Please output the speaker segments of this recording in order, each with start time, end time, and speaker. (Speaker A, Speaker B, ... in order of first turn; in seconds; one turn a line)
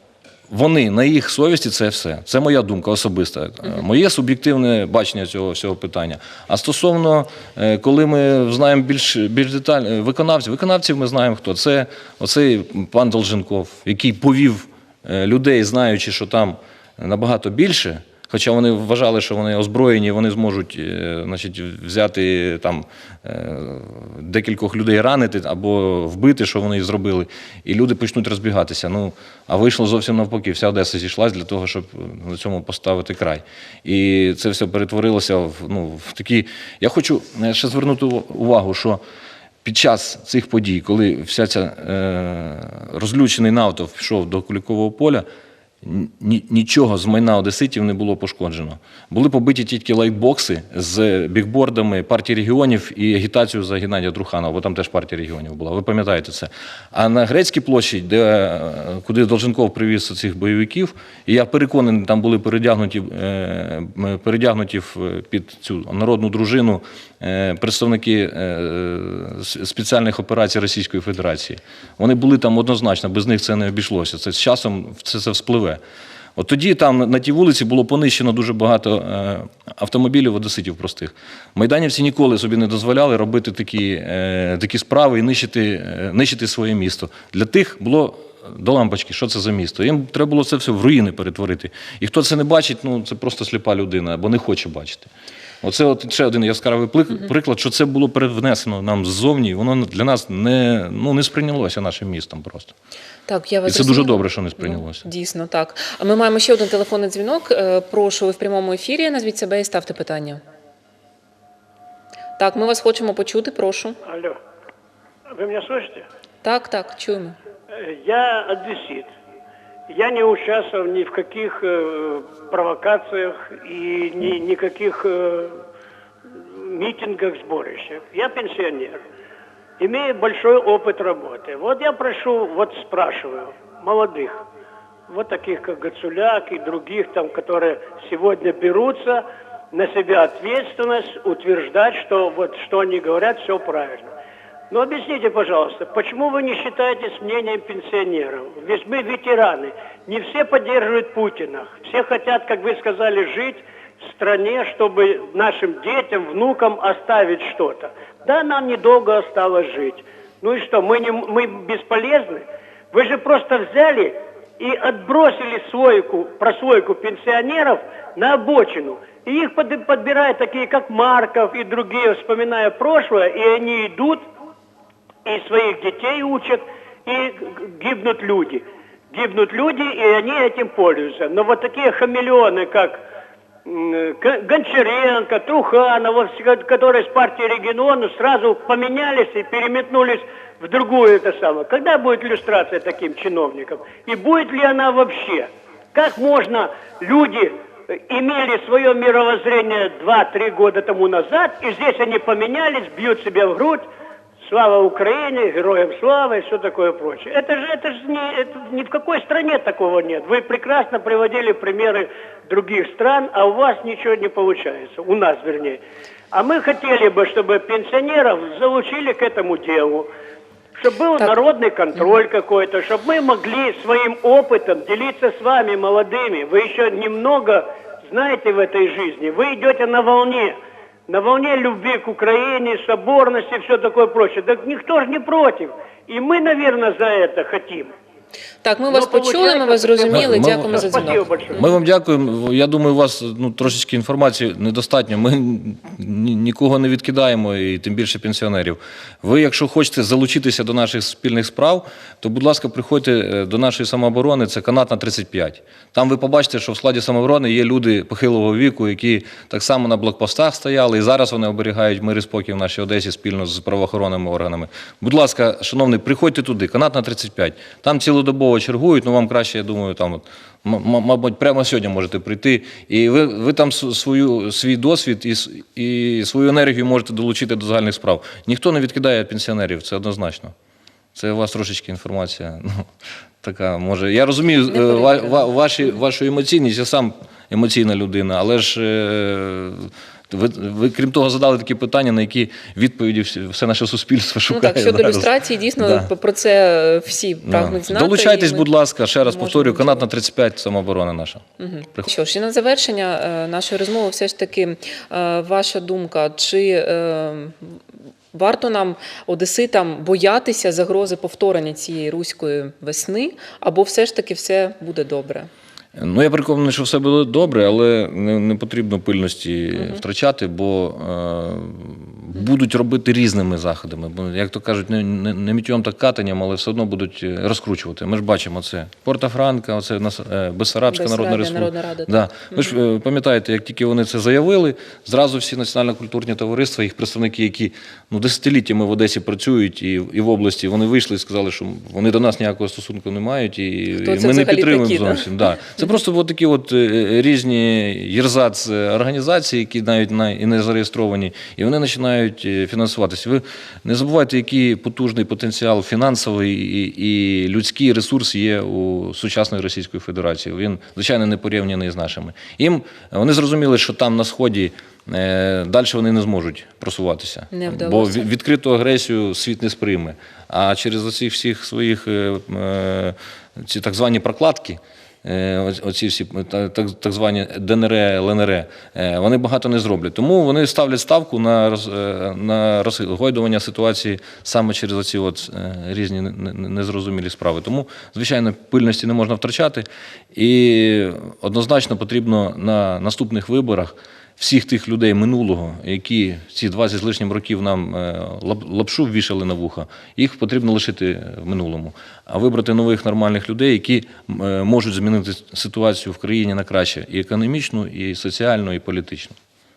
Speaker A: 0.5-39.0
Speaker A: 39.6-45.3
Speaker A: 45.8-75.8
Speaker A: 76.4-95.1
Speaker A: 95.6-102.7
Speaker B: 103.3-110.4
Speaker A: 103.7-105.0
Speaker B: 112.4-114.0
Speaker C: 114.0-114.4
Speaker C: 115.3-116.1
Speaker B: 116.4-117.4
Speaker C: 117.7-119.1
Speaker C: 119.9-125.6
Speaker C: 126.3-129.0
Speaker C: 129.8-134.4
Speaker C: 135.1-144.1
Speaker C: 144.7-174.2
Speaker C: 175.2-183.0
Speaker C: 183.7-203.9
Speaker C: 204.4-215.8
Speaker C: 216.3-220.1
Speaker C: 220.8-230.6
Speaker C: 231.1-237.9
Speaker B: 238.6-241.6
Speaker C: 238.9-241.6
Speaker A: 240.1-280.5
Speaker A: 281.1-282.9
Speaker A: 283.4-296.1
Speaker B: 284.7-285.3
Speaker B: 294.5-298.7
Speaker A: 297.5-301.4
Speaker B: 299.2-300.1
Speaker B: 301.6-307.8
Speaker B: 308.3-315.5
Speaker A: 316.0-409.4
Speaker B: 330.9-332.7
Speaker B: 344.0-345.3
Speaker B: 367.5-368.3